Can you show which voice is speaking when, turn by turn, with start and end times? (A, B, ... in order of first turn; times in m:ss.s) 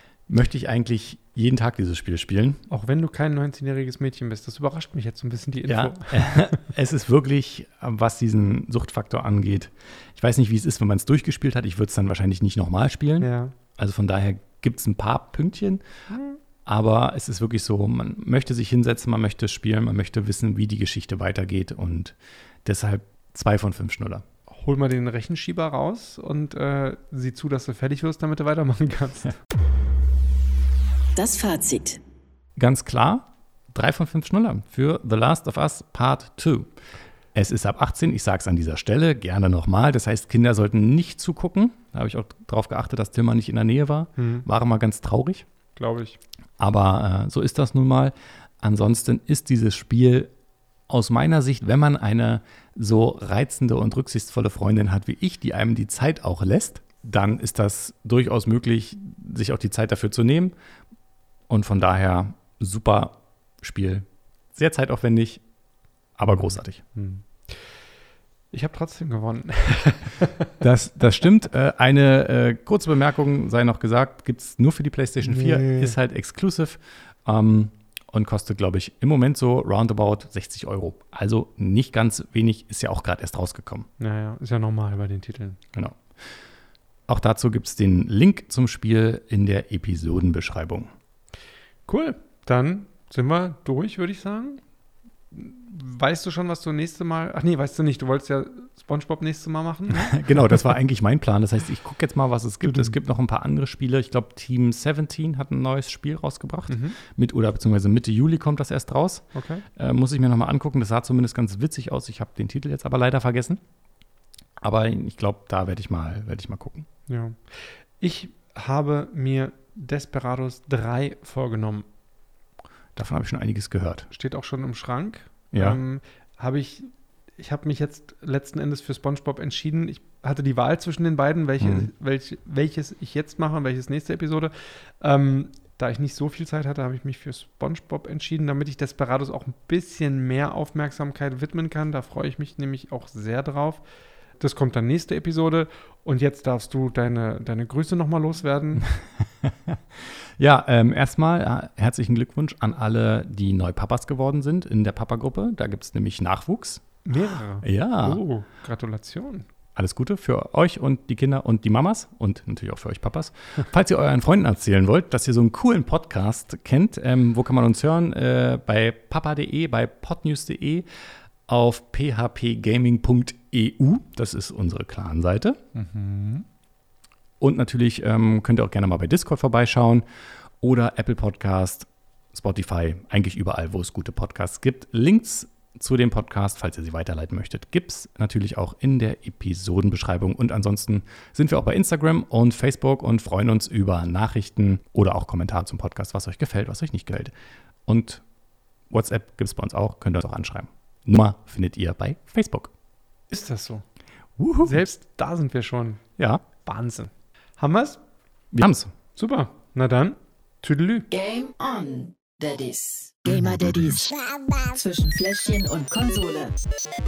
0:00.3-0:02.6 A
0:02.7-0:06.7 B
0:05.7-0:15.8 A
0:13.2-0:13.5 B
0:16.1-0:16.4 B
0:16.6-0:24.2 A
0:24.5-0:29.4 B
0:31.2-0:32.0 C
0:32.6-0:36.7 A
0:37.3-0:45.4 A
0:44.2-0:44.4 B
0:45.8-0:46.2 B
0:46.6-0:50.3 A
0:50.9-1:00.5 A
1:01.5-1:05.4 A
1:06.2-1:06.8 A
1:06.9-1:07.7 B
1:08.5-1:10.5 B
1:10.6-1:23.9 A
1:15.2-1:16.0 B
1:24.0-1:25.6 B
1:25.7-1:26.0 A
1:27.1-1:30.9 A
1:31.9-1:34.6 B
1:35.3-1:40.2 B
1:39.9-1:53.6 A
1:42.6-1:43.0 B
1:46.7-1:47.0 B
1:49.3-1:49.6 B
1:54.6-1:56.9 A
1:57.1-2:01.8 B
2:02.9-2:04.1 A
2:04.1-2:23.8 B
2:05.5-2:05.8 A
2:11.6-2:11.9 A
2:24.4-2:28.9 B
2:28.8-2:37.0 A
2:37.0-2:39.4 B
2:37.6-2:38.2 A
2:39.8-2:50.8 A
2:51.5-2:55.6 A
2:55.7-2:56.4 B
2:57.4-3:00.0 A
3:00.6-3:17.3 A
3:17.8-3:18.2 A
3:18.9-3:22.7 A
3:23.3-3:23.8 B
3:24.4-3:24.8 A
3:24.6-3:26.0 B
3:26.2-3:26.4 A
3:26.6-3:28.0 B
3:28.5-3:28.9 A
3:29.2-3:31.1 B
3:31.1-3:36.6 C